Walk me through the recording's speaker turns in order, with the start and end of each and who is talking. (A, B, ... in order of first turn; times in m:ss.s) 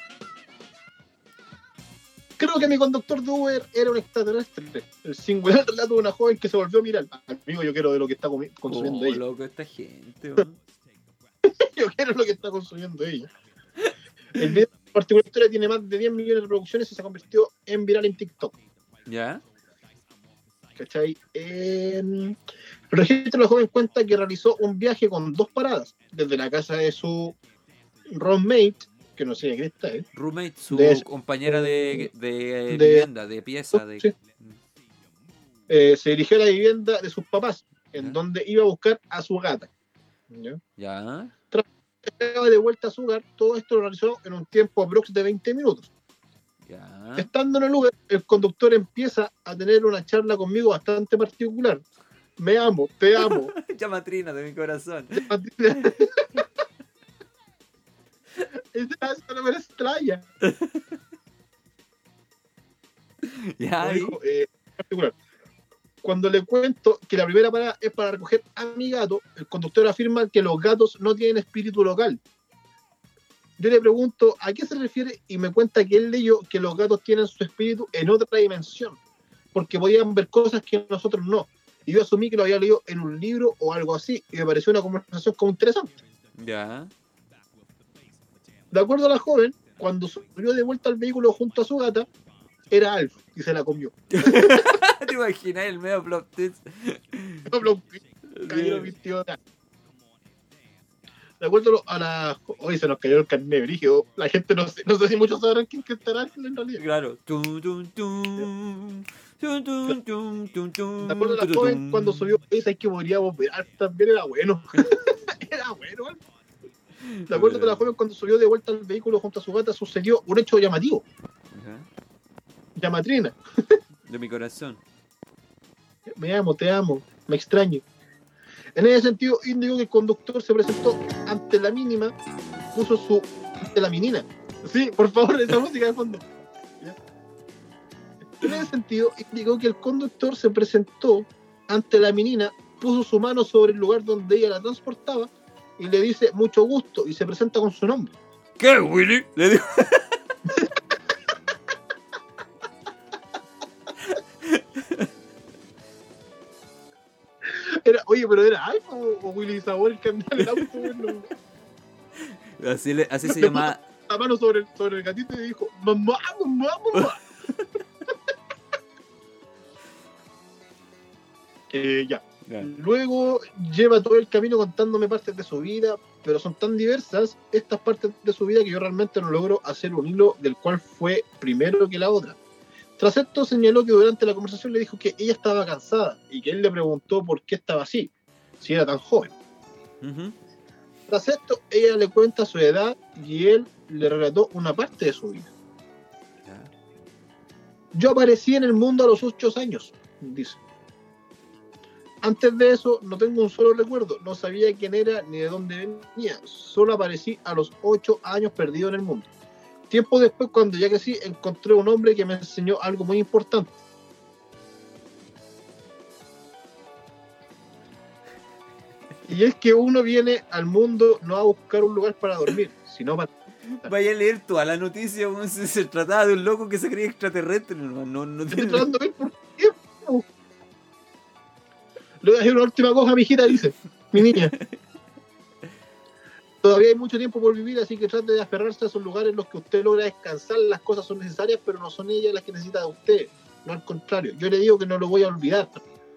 0:02.4-0:09.2 A
0:08.7-0:10.6 B
0:11.4-0:13.3 A
0:14.3-0:18.6 A
0:19.0-0:19.4 B
0:20.8-0:22.4 A
0:22.9-0:27.4 A
0:28.1-0:30.0 A
0:30.1-0:34.6 B
0:30.7-0:32.1 A
0:32.7-0:33.1 A
0:33.7-0:34.1 A
0:35.7-0:39.7 A
0:40.3-0:40.6 A
0:40.8-0:41.3 B
0:41.5-0:45.9 A
0:46.7-0:47.3 B
0:47.2-0:51.8 A
0:52.4-0:53.5 A
0:53.2-0:55.3 B
0:55.1-0:56.4 A
0:58.7-1:00.2 A
1:00.4-1:01.0 B
1:03.2-1:04.2 B
1:03.8-1:05.2 A
1:06.0-1:12.2 A
1:13.6-1:19.0 A
1:19.5-1:26.0 A
1:26.4-1:26.9 B
1:28.7-1:32.1 A
1:32.7-1:34.6 A
1:34.1-1:37.5 B
1:37.5-1:39.4 A
1:38.3-1:38.9 B
1:41.4-1:46.8 A
1:46.8-1:52.3 B
1:51.0-1:56.2 A
1:57.0-1:57.8 B
1:57.3-2:01.0 A
2:01.5-2:01.9 B
2:02.8-2:03.8 A
2:04.1-2:04.8 B
2:06.1-2:07.8 A
2:08.8-2:12.1 A
2:12.7-2:16.2 A
2:18.4-2:28.1 A
2:28.6-2:30.2 B
2:34.0-2:35.1 B
2:37.4-2:41.3 A
2:40.5-2:41.1 B
2:42.2-2:43.8 B
2:43.2-2:47.2 A
2:47.0-2:47.6 B
2:51.7-3:02.4 A
2:52.4-2:52.7 B
3:03.0-3:09.3 A
3:10.0-3:10.4 B
3:11.1-3:15.5 A
3:16.4-3:16.7 B
3:17.9-3:20.6 A
3:22.2-3:29.3 A
3:29.9-3:33.7 A
3:39.3-3:43.3 A
3:43.8-3:48.9 B
3:48.5-3:50.2 A
3:52.2-3:54.5 A
3:54.3-3:54.8 B
3:56.6-4:05.8 A